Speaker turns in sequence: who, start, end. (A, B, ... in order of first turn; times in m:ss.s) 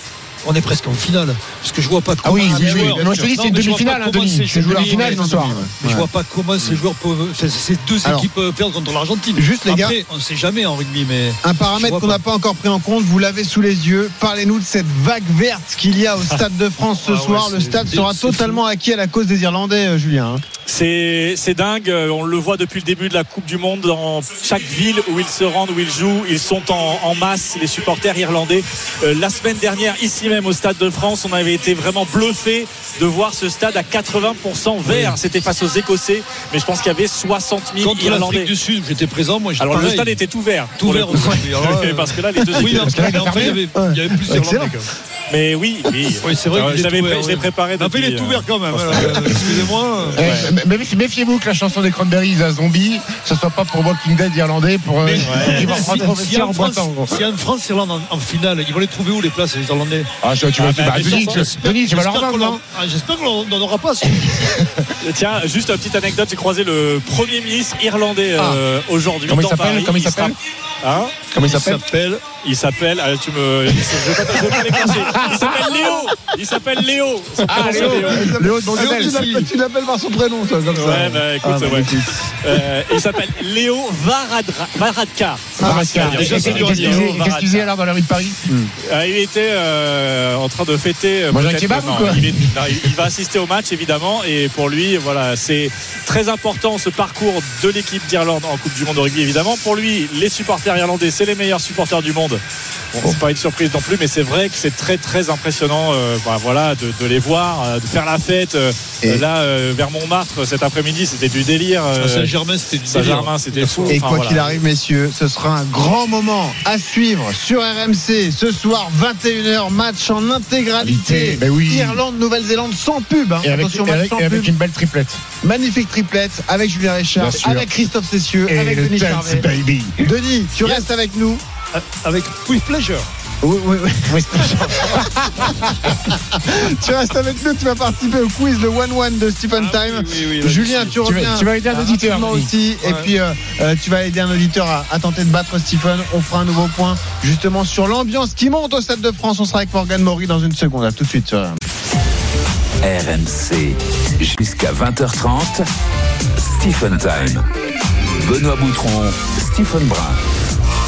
0:00.4-0:05.2 A
0:02.2-0:05.6 B
0:02.4-0:03.3 C
0:04.5-0:06.1 C
0:05.8-0:12.2 A
0:08.0-0:08.3 C
0:09.4-0:10.0 C
0:11.4-0:20.4 C
0:17.0-0:17.8 D
0:17.8-0:18.6 A
0:20.6-0:38.5 D
0:34.8-0:35.2 A
0:37.8-0:40.1 A
0:39.6-0:42.8 D
0:40.8-0:44.9 A
0:42.6-0:43.6 B
0:43.2-0:44.8 C
0:45.3-0:48.5 D
0:46.2-0:50.5 A
0:48.7-0:49.5 B
0:50.2-0:57.2 B
0:55.0-1:04.3 A
0:55.3-0:55.9 C
1:00.2-1:02.6 B
1:00.7-1:01.4 D
1:04.0-1:04.9 B
1:05.0-1:11.2 D
1:09.2-1:10.4 B
1:11.3-1:11.8 B
1:11.5-1:12.3 A
1:12.3-1:18.2 D
1:13.9-1:15.7 B
1:14.3-1:15.3 A
1:17.5-1:19.5 B
1:17.5-1:22.5 C
1:20.7-1:27.6 D
1:25.6-1:26.0 C
1:25.6-1:28.4 B
1:25.9-1:27.2 A
1:28.9-1:42.4 D
1:31.3-1:32.7 B
1:42.9-1:54.6 D
1:52.0-1:54.3 A
1:53.9-2:04.5 C
2:00.8-2:02.0 B
2:03.4-2:05.2 B
2:05.4-2:09.5 C
2:07.1-2:07.9 B
2:08.5-2:10.0 B
2:10.0-2:11.4 C
2:11.7-2:13.1 A
2:13.4-2:15.0 C
2:14.0-2:15.9 B
2:16.3-2:31.6 C
2:19.5-2:21.0 A
2:21.0-2:22.5 B
2:22.8-2:23.1 A
2:32.8-2:35.6 E
2:36.4-2:37.4 E
2:38.2-2:40.2 E